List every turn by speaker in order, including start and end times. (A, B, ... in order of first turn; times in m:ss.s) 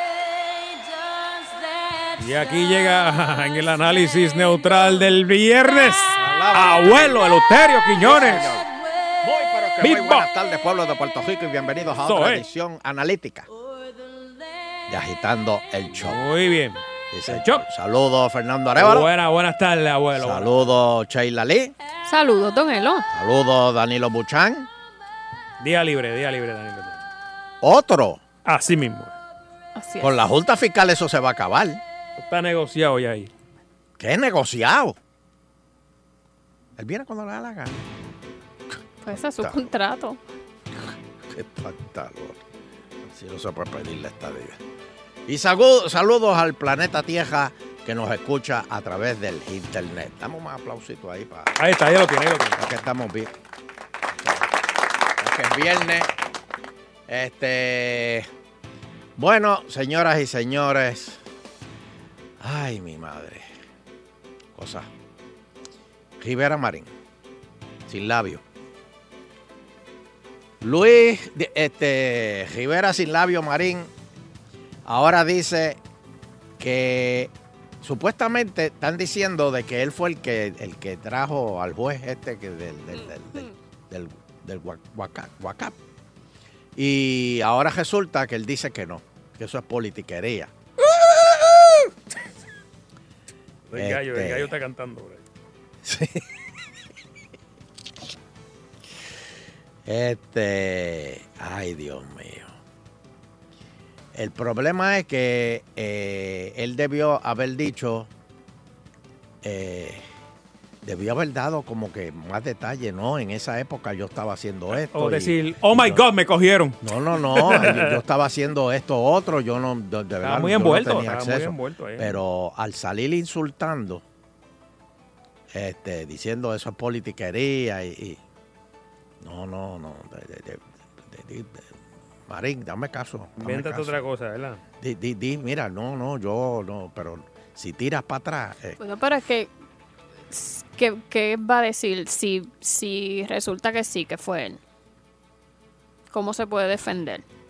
0:02.2-0:08.6 A
0:06.2-0:07.2 B
0:08.0-0:08.6 B
0:09.2-0:13.5 B
0:09.8-0:10.3 A
0:12.1-0:12.4 A
0:14.9-0:16.2 B
0:16.0-0:17.6 A
0:17.1-0:19.1 B
0:18.8-0:20.5 A
0:20.2-0:21.7 B
0:22.1-0:23.1 C
0:23.1-0:24.7 B
0:25.6-0:27.0 A
0:27.6-0:28.2 B
0:28.5-0:29.1 A
0:29.8-0:30.3 C
0:30.0-0:31.8 B
0:32.2-0:33.3 A
0:34.0-0:35.0 B
0:36.8-0:37.8 B
0:39.0-0:40.2 C
0:39.1-0:39.6 B
0:41.3-0:42.4 B
0:43.1-0:44.6 B
0:45.3-0:51.5 B
0:51.6-0:52.6 A
0:52.6-0:53.3 B
0:55.2-0:56.1 B
0:57.1-0:58.3 B
0:59.2-1:01.2 B
1:02.4-1:03.5 B
1:04.6-1:04.9 B
1:06.2-1:06.9 B
1:07.9-1:08.4 B
1:10.6-1:13.9 B
1:14.9-1:15.8 B
1:16.6-1:25.8 B
1:22.9-1:23.5 C
1:26.8-1:30.5 B
1:33.7-1:35.2 A
1:33.7-1:34.5 B
1:35.8-1:36.2 B
1:39.9-1:42.5 B
1:44.1-1:48.1 B
1:49.4-1:50.0 B
1:50.8-1:56.0 B
1:54.8-1:56.8 A
1:56.8-2:04.0 B
1:57.3-1:58.0 A
2:00.2-2:02.2 A
2:05.5-2:08.2 B
2:09.2-2:11.6 B
2:12.3-2:14.0 B
2:13.4-2:14.6 A
2:14.8-2:18.8 B
2:18.8-2:19.5 C
2:20.3-2:24.6 C
2:26.1-2:27.2 C